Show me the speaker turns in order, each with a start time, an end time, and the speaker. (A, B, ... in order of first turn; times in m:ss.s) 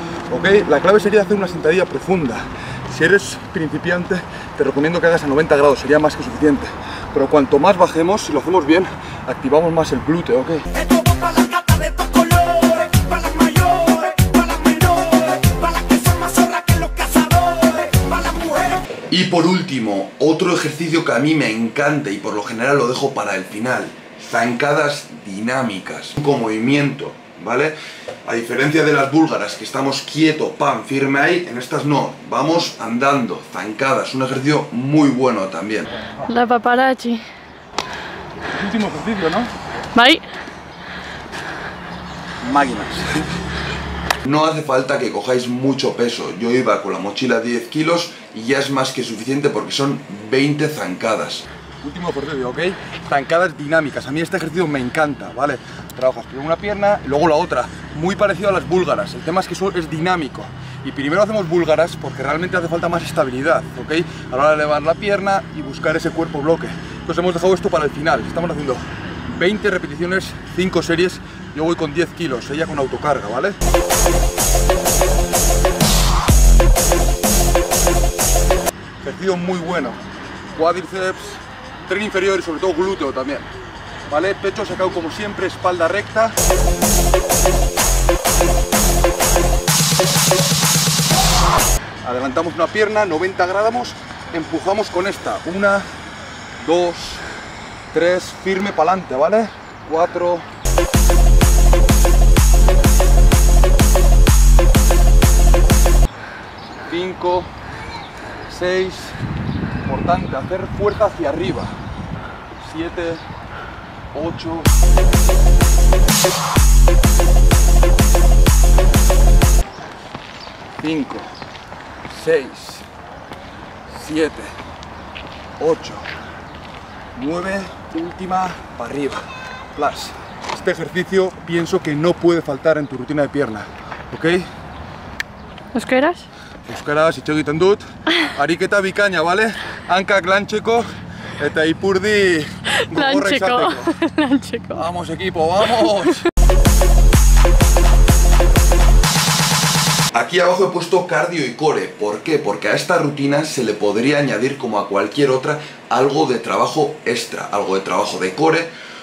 0:00.3-0:10.9 A
0:12.2-0:18.8 A
0:19.0-0:35.9 B
0:36.3-0:37.2 C
0:38.5-0:39.5 A
0:39.9-0:40.2 C
0:42.4-0:43.2 A
0:44.2-0:51.4 B
0:51.8-1:13.6 A
1:19.0-1:20.0 A
1:20.5-1:23.5 A
1:24.1-1:26.4 A
1:32.0-1:35.9 A
1:36.6-1:37.2 A
1:37.9-1:40.5 A
1:46.9-1:47.5 A
1:48.5-1:49.2 A
1:49.8-1:51.8 A
1:52.6-1:53.2 A
1:54.1-1:54.7 A
2:00.8-2:01.3 A
2:02.0-2:02.9 A
2:03.9-2:04.5 A
2:05.6-2:06.1 A
2:07.2-2:14.5 A
2:15.7-2:16.2 C
2:16.7-2:20.9 A
2:21.4-2:24.0 A
2:22.8-2:24.8 C
2:24.7-2:26.2 A
2:30.1-2:38.7 B